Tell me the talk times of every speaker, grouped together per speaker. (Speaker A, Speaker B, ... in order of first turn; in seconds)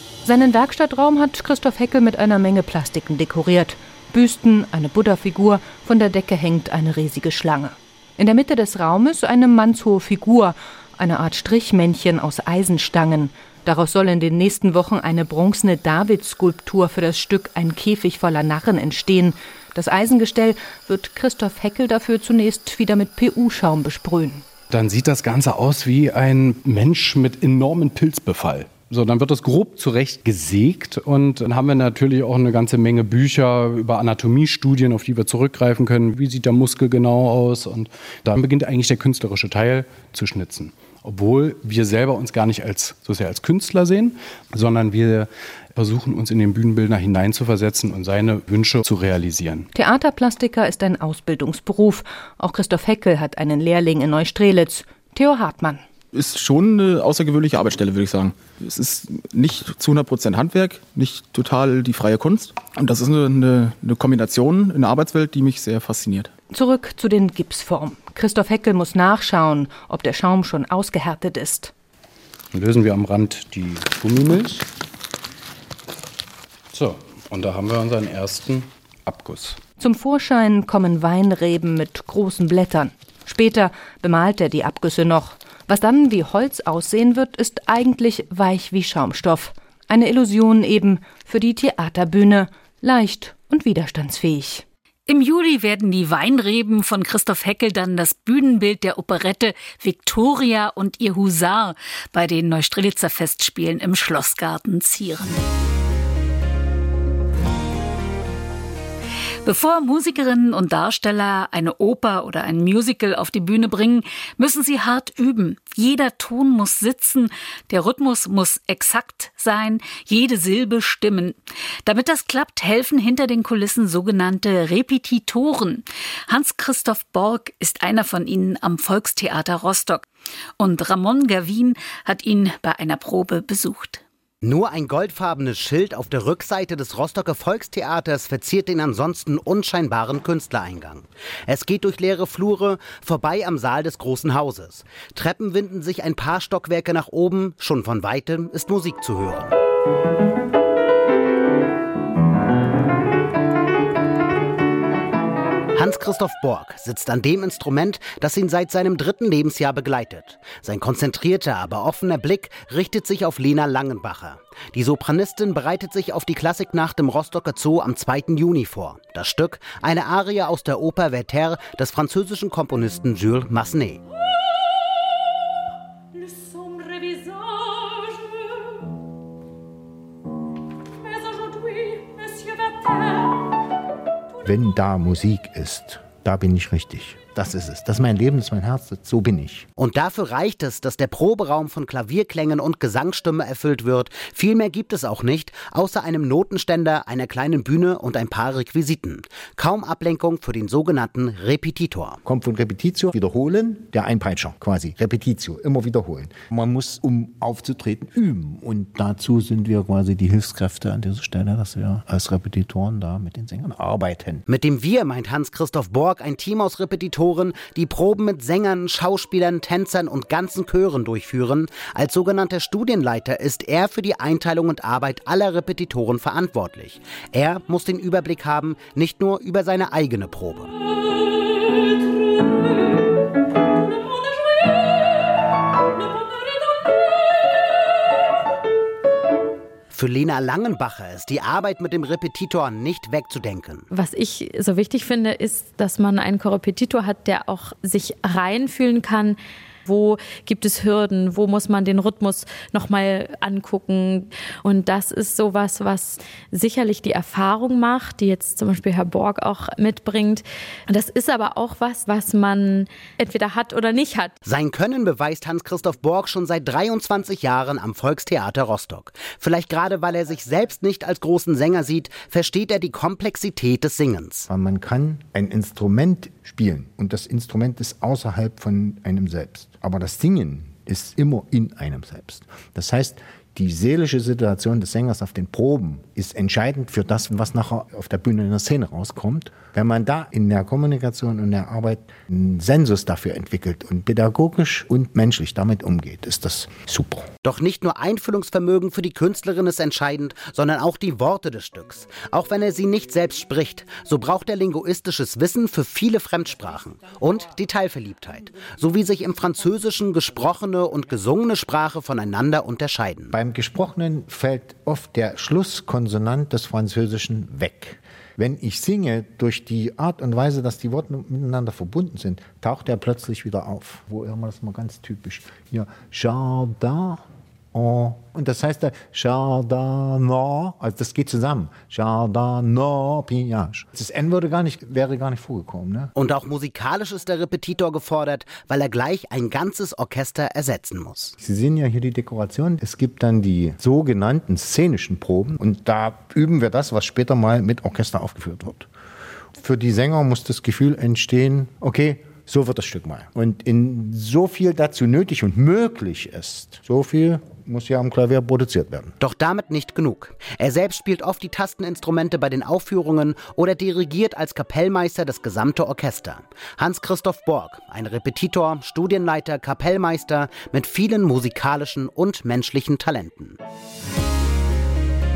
Speaker A: 0.2-24.4, 49.7-55.8, 66.5-71.7, 79.8-94.6
Speaker B: 24.7-49.7, 72.5-74.7, 76.7-79.6
Speaker C: 56.1-66.3
Speaker D: 95.1-105.4, 109.4-130.0, 130.6-134.0
Speaker E: 134.4-149.6, 155.7-174.0, 189.8-202.2, 214.5-230.7, 239.9-243.9, 264.4-274.5, 297.4-313.3, 336.1-341.3, 359.2-373.6
Speaker F: 184.4-189.7, 202.2-214.4, 274.5-297.3, 313.3-336.1, 341.4-348.9, 349.5-359.1
Speaker G: 243.9-264.3